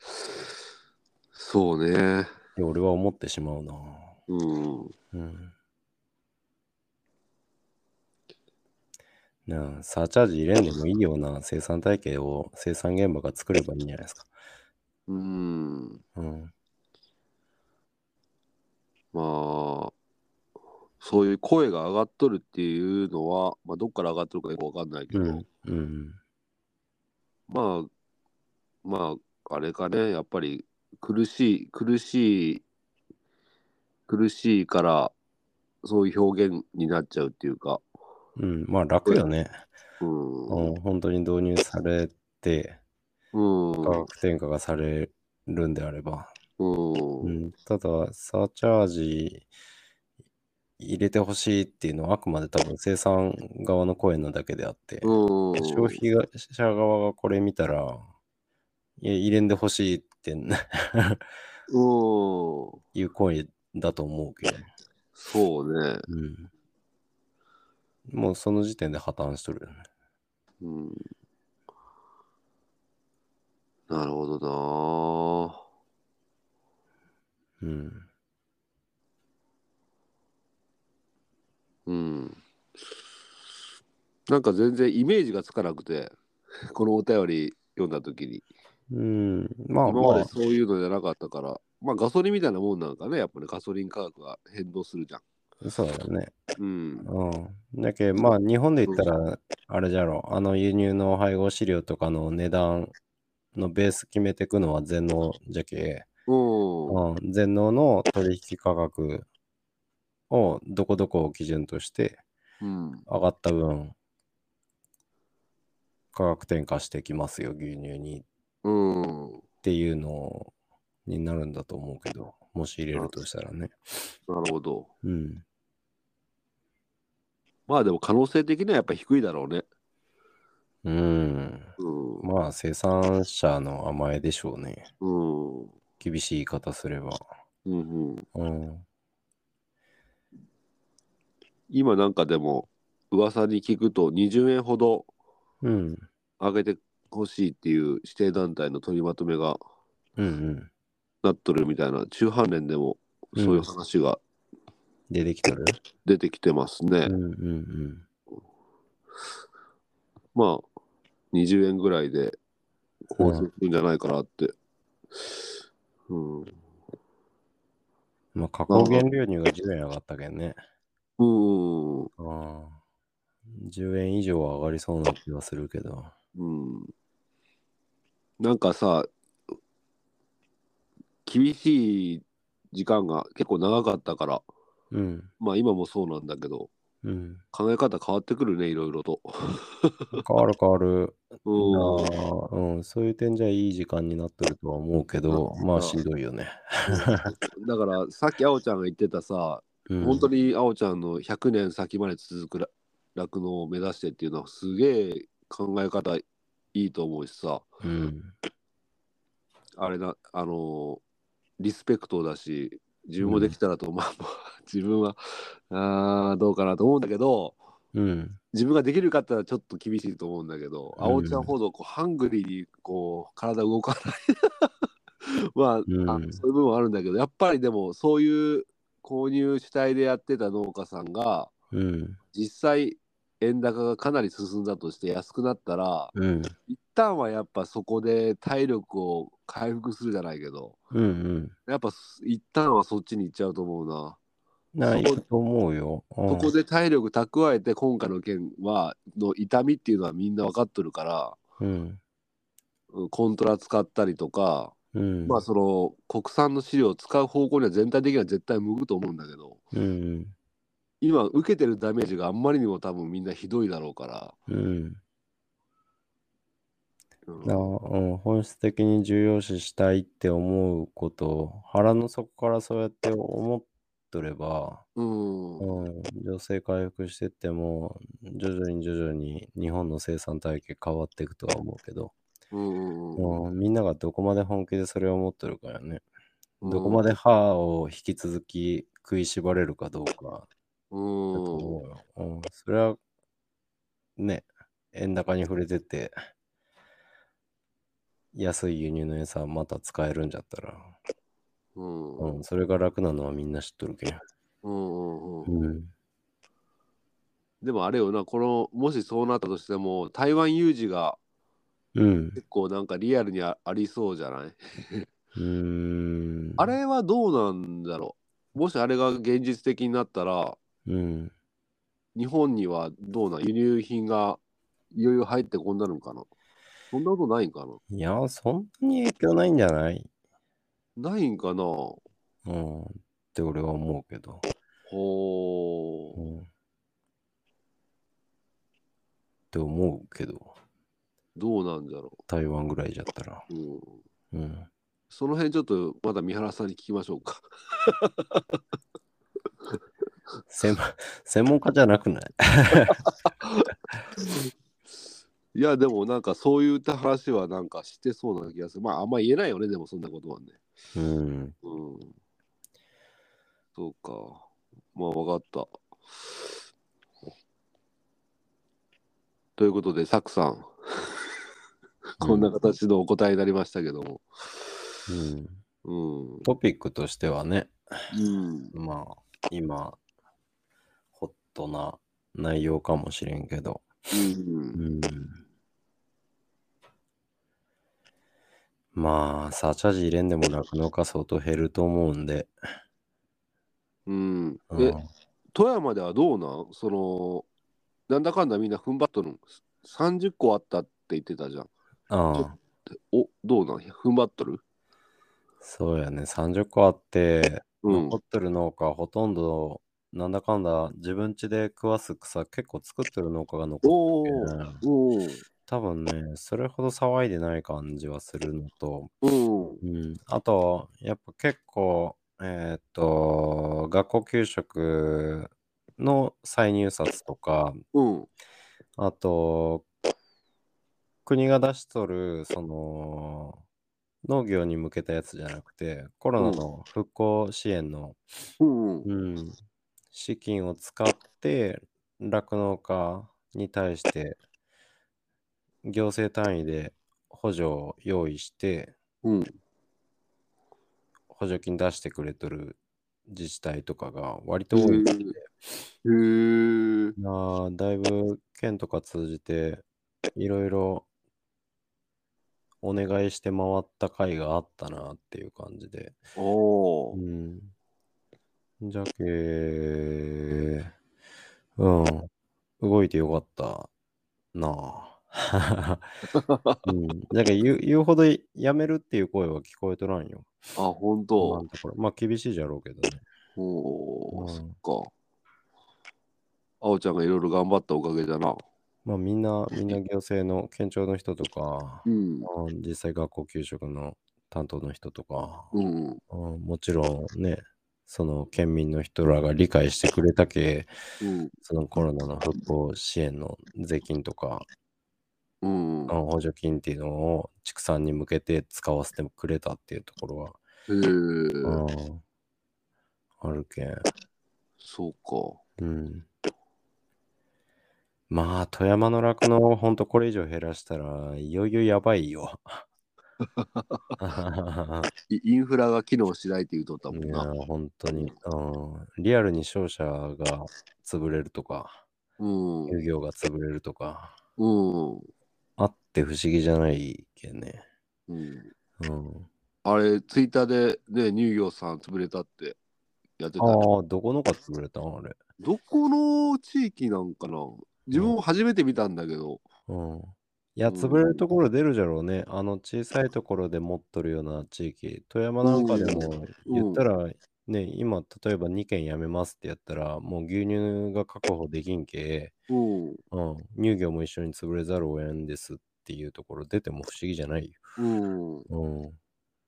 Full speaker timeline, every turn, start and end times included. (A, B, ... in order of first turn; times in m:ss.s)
0:01.4-0:02.3 A
0:02.6-0:04.2 B
0:04.3-0:04.9 A
0:05.1-0:05.5 B
0:09.5-0:14.3 B
0:15.1-0:16.0 A
0:16.2-0:16.5 B
0:19.1-0:19.9 A
0:21.0-0:25.4 A
0:25.1-0:26.2 B
0:27.5-0:27.9 A
0:28.8-0:32.6 A
0:34.1-0:35.1 A
0:35.8-0:37.8 A
0:38.4-0:39.6 B
0:40.0-0:40.7 A
0:40.5-0:42.8 B
0:43.3-0:44.1 A
0:43.8-0:46.3 B
0:46.6-0:47.4 A
0:47.2-0:49.5 B
0:50.8-0:58.1 B
0:55.0-0:56.0 A
0:59.0-1:01.3 B
1:01.7-1:02.8 A
1:03.0-1:04.7 B
1:05.1-1:06.1 A
1:06.1-1:06.5 B
1:08.1-1:09.9 B
1:10.6-1:11.1 A
1:13.9-1:15.6 A
1:17.6-1:18.1 B
1:21.9-1:22.4 A
1:24.3-1:26.1 A
1:26.6-1:28.5 A
1:28.9-1:30.3 B
1:29.9-1:35.2 A
1:35.6-1:36.3 B
1:36.6-1:37.1 A
1:37.0-1:42.9 B
1:43.5-1:46.1 B
1:46.3-1:47.0 A
1:46.9-1:49.3 B
1:50.3-1:52.2 B
1:52.6-1:53.1 A
1:53.1-1:54.0 B
1:56.1-1:58.2 B
1:58.6-1:59.4 A
1:59.6-2:00.5 B
2:01.1-2:04.1 B
2:04.3-2:04.9 A
2:05.0-2:05.4 B
2:07.7-2:09.6 A
2:10.8-2:14.9 B
2:11.8-2:12.3 A
2:15.0-2:15.7 A
2:16.0-2:17.3 B
2:17.6-2:18.3 A
2:18.4-2:18.8 B
2:21.7-2:25.1 A
2:25.6-2:26.1 B
2:26.4-2:29.6 A
2:30.2-2:30.7 B
2:31.2-2:34.2 A
2:33.4-2:33.7 B
2:35.1-2:35.8 B
2:36.0-2:37.2 A
2:37.1-2:38.0 B
2:40.3-2:40.6 A
2:41.3-2:42.4 A
2:43.1-2:44.5 A
2:43.2-2:43.5 B
2:46.1-2:46.6 A
2:48.4-2:50.6 B
2:48.7-2:49.0 A
2:51.2-2:52.1 A
2:52.2-2:52.8 B
2:53.5-2:56.1 B
2:56.4-2:56.9 A
2:58.4-2:59.1 A
3:01.3-3:04.4 A
3:04.9-3:05.3 B
3:05.4-3:06.7 A
3:07.0-3:07.4 B
3:07.5-3:10.2 A
3:10.2-3:17.3 B
3:11.5-3:12.1 A
3:15.3-3:16.0 A
3:16.9-3:27.7 A
3:19.9-3:20.3 B
3:27.8-3:28.3 B
3:29.8-3:31.0 A
3:31.6-3:37.6 A
3:33.2-3:33.6 B
3:37.9-3:38.4 B
3:38.5-3:44.7 A
3:41.0-3:41.5 B
3:45.2-3:51.5 A
3:45.9-3:46.4 B
3:51.7-3:52.2 B
3:52.3-3:56.1 A
3:56.1-3:56.6 B
3:56.7-4:00.8 A
4:00.9-4:01.6 B
4:01.7-4:04.2 A
4:04.7-4:06.5 B
4:04.8-4:05.2 A
4:06.3-4:11.4 A
4:11.6-4:12.0 B
4:12.9-4:14.8 A
4:14.9-4:15.4 B
4:15.3-4:19.6 A
4:19.7-4:20.3 B
4:21.0-4:24.4 A
4:24.5-4:25.0 B
4:27.3-4:27.6 A
4:27.4-4:34.9 B
4:35.0-4:35.8 A
4:35.6-4:42.1 B
4:42.5-4:43.4 A
4:43.2-4:46.0 B
4:46.6-4:47.0 A
4:46.6-4:50.5 B
4:50.9-4:51.8 A
4:51.3-4:53.0 B
4:54.2-4:56.2 B
4:58.3-5:01.0 B
5:01.8-5:02.4 A
5:02.2-5:04.2 B
5:04.6-5:05.6 A
5:05.5-5:05.9 B
5:07.6-5:11.2 A
5:12.0-5:12.4 B
5:12.4-5:15.1 A
5:15.4-5:16.7 B
5:16.6-5:20.6 A
5:20.9-5:21.3 B
5:22.1-5:24.4 A
5:24.9-5:26.3 A
5:26.9-5:27.8 A
5:27.9-5:30.1 B
5:31.0-5:32.0 A
5:32.4-5:34.4 B
5:34.9-5:36.2 A
5:36.2-5:36.5 B
5:39.5-5:40.5 B
5:41.4-5:42.2 A
5:42.3-5:43.4 B
5:43.5-5:44.0 A
5:44.3-5:44.7 B
5:45.1-5:48.4 A
5:50.5-5:53.0 B
5:52.8-5:54.5 A
5:55.5-6:00.6 A
6:01.0-6:01.6 B
6:01.6-6:02.1 A
6:03.8-6:05.7 A
6:09.6-6:11.1 A
6:12.2-6:14.7 A
6:12.2-6:12.5 B
6:15.1-6:15.6 B
6:15.8-6:16.5 A
6:16.4-6:17.8 B
6:18.1-6:18.7 A
6:18.7-6:20.0 B
6:21.2-6:24.0 B
6:24.1-6:24.8 A
6:24.8-6:25.4 B
6:29.0-6:32.6 B
6:34.1-6:35.0 A
6:34.7-6:35.1 B
6:35.5-6:37.5 A
6:38.1-6:41.7 A
6:42.1-6:42.6 B
6:42.4-6:44.6 A
6:45.6-6:54.8 B
6:47.8-6:48.2 A
6:53.8-6:55.4 A
6:55.7-6:59.1 B
6:59.2-6:59.8 A
6:59.8-7:07.8 B
7:07.9-7:08.3 A
7:09.0-7:09.9 B
7:11.3-7:13.6 B
7:14.2-7:18.2 B
7:16.4-7:16.6 A
7:18.6-7:19.1 A
7:19.0-7:19.6 B
7:20.1-7:24.4 B
7:25.8-7:28.9 B
7:29.2-7:29.5 A
7:31.3-7:35.5 B
7:34.7-7:35.4 A
7:36.0-7:37.1 A
7:37.2-7:39.8 B
7:40.4-7:41.1 B
7:42.8-7:46.2 B
7:46.4-7:47.2 A
7:47.1-7:47.7 B
7:48.8-7:50.9 B
7:51.8-7:52.3 B
7:52.8-7:53.9 B
7:54.5-7:56.1 B
7:56.3-7:56.8 A
7:56.8-8:00.6 B
8:00.8-8:01.6 A
8:01.4-8:03.2 B
8:03.6-8:05.1 A
8:04.3-8:04.8 B
8:06.8-8:08.6 A
8:09.0-8:15.7 B
8:12.0-8:12.5 A
8:15.7-8:16.2 A
8:16.3-8:20.9 B
8:21.2-8:21.5 A
8:21.6-8:24.7 B
8:25.6-8:26.2 A
8:26.1-8:30.6 B
8:30.9-8:31.8 A
8:31.6-8:32.2 B
8:33.4-8:34.0 B
8:34.8-8:35.6 A
8:35.8-8:36.3 B
8:38.3-8:42.9 B
8:43.6-8:44.0 A
8:44.2-8:45.1 B
8:45.3-8:47.5 A
8:47.1-8:52.0 B
8:52.4-8:53.0 A
8:52.9-8:54.4 B
8:54.6-8:55.3 A
8:55.8-8:57.8 B
8:58.3-8:58.7 A
8:59.0-8:59.5 B
8:59.8-9:02.8 A
9:03.4-9:03.8 A
9:03.6-9:05.4 B
9:05.6-9:09.6 A
9:09.9-9:22.5 B
9:10.9-9:11.4 A
9:15.6-9:17.0 A
9:22.7-9:23.2 A
9:23.3-9:27.9 B
9:28.0-9:28.7 A
9:28.7-9:29.2 B